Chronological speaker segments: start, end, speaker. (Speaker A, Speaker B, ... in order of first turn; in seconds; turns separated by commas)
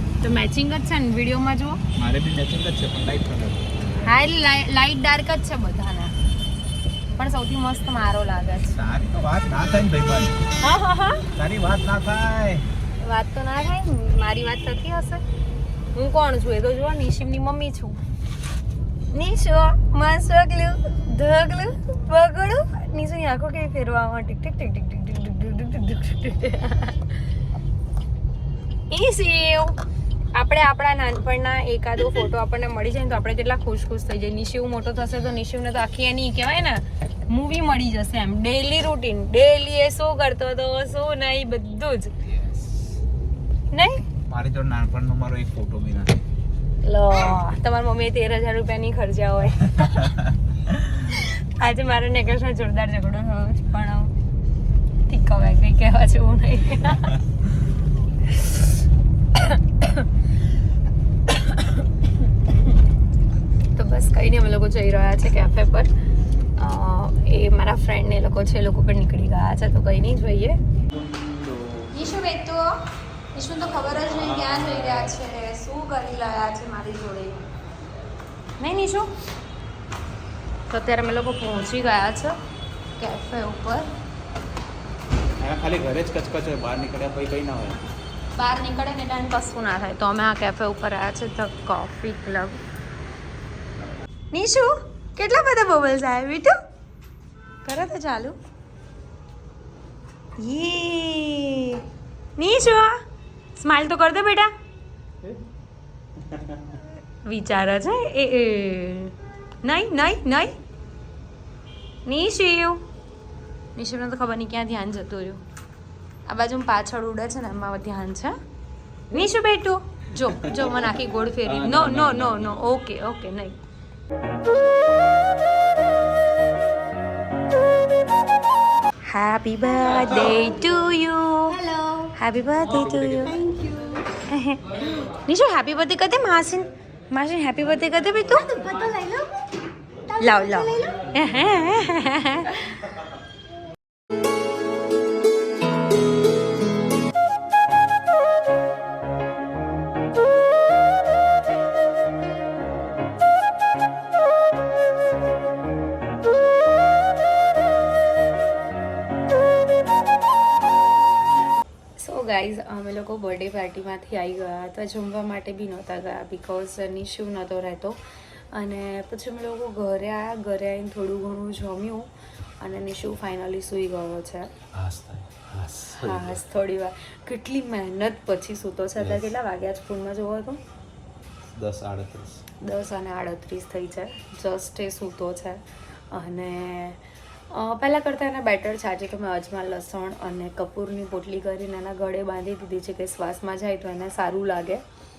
Speaker A: 0.2-1.8, Speaker B: 1.9-3.7, Speaker A: 4.0-6.1, Speaker A: 7.2-8.8, Speaker B: 8.7-10.4, Speaker A: 10.6-11.3, Speaker B: 11.3-12.6, Speaker A: 13.0-15.2, Speaker A: 15.9-18.0, Speaker A: 19.1-27.1, Speaker A: 28.9-29.8, Speaker A: 30.3-42.1, Speaker B: 42.2-42.8, Speaker A: 43.7-44.0, Speaker B: 44.3-46.2, Speaker A: 46.8-50.1, Speaker A: 51.0-54.1, Speaker A: 55.1-57.1, Speaker A: 58.3-58.6, Speaker A: 59.3-60.1, Speaker A: 61.3-61.9, Speaker A: 63.7-65.9, Speaker A: 66.6-70.6, Speaker B: 70.9-71.9, Speaker A: 71.9-72.7, Speaker A: 73.3-77.4, Speaker B: 73.7-75.2, Speaker A: 78.6-79.1, Speaker A: 80.7-82.3, Speaker A: 83.0-83.9, Speaker B: 85.4-87.8, Speaker A: 88.3-92.6, Speaker A: 94.3-96.5, Speaker A: 97.6-98.3, Speaker A: 100.4-101.8, Speaker A: 102.4-103.0, Speaker A: 103.5-104.5, Speaker B: 106.2-106.8, Speaker A: 107.2-110.5, Speaker A: 112.0-112.8, Speaker A: 113.7-115.4, Speaker A: 116.3-118.3, Speaker A: 119.1-123.5, Speaker B: 120.4-120.9, Speaker B: 121.4-122.6, Speaker A: 129.1-131.6, Speaker C: 131.5-132.1, Speaker A: 132.2-133.4, Speaker B: 132.6-133.4, Speaker C: 133.2-134.1, Speaker A: 134.2-138.5, Speaker C: 138.3-139.4, Speaker C: 140.0-141.1, Speaker A: 140.2-142.8, Speaker A: 162.0-168.0, Speaker A: 168.5-172.1, Speaker A: 172.6-174.5, Speaker B: 174.7-176.4, Speaker A: 175.9-180.6, Speaker B: 179.0-179.3, Speaker B: 181.5-182.4, Speaker A: 182.6-194.8